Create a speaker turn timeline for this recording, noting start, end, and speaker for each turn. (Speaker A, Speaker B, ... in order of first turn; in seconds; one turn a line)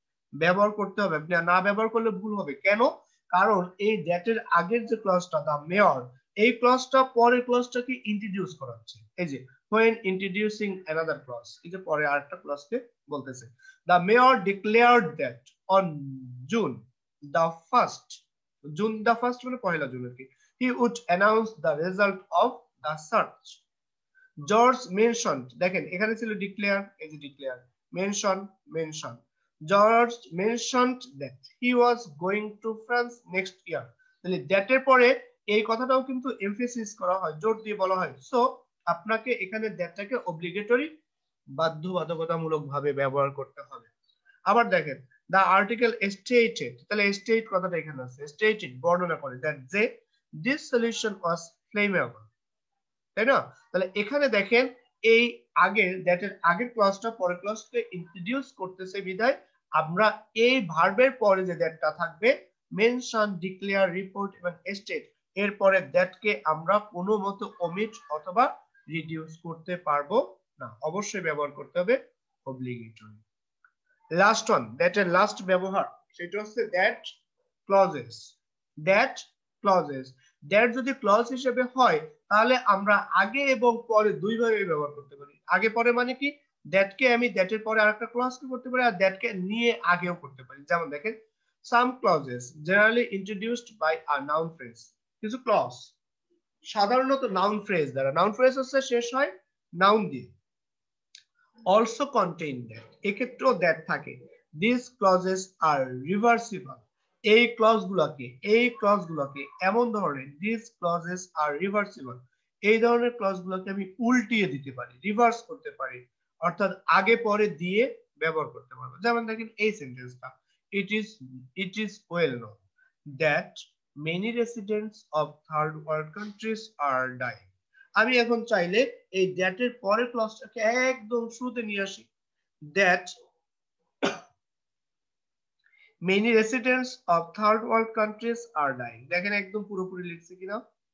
Speaker A: 0.4-23.6
Speaker A: 24.4-40.9
Speaker A: 41.6-43.9
Speaker A: 44.5-49.9
Speaker A: 50.4-52.3
Speaker A: 53.1-73.2
Speaker A: 74.1-77.1
Speaker A: 77.7-95.9
Speaker A: 96.7-100.3
Speaker A: 101.7-122.6
Speaker A: 123.1-132.1
Speaker A: 132.7-133.1
Speaker A: 136.0-140.6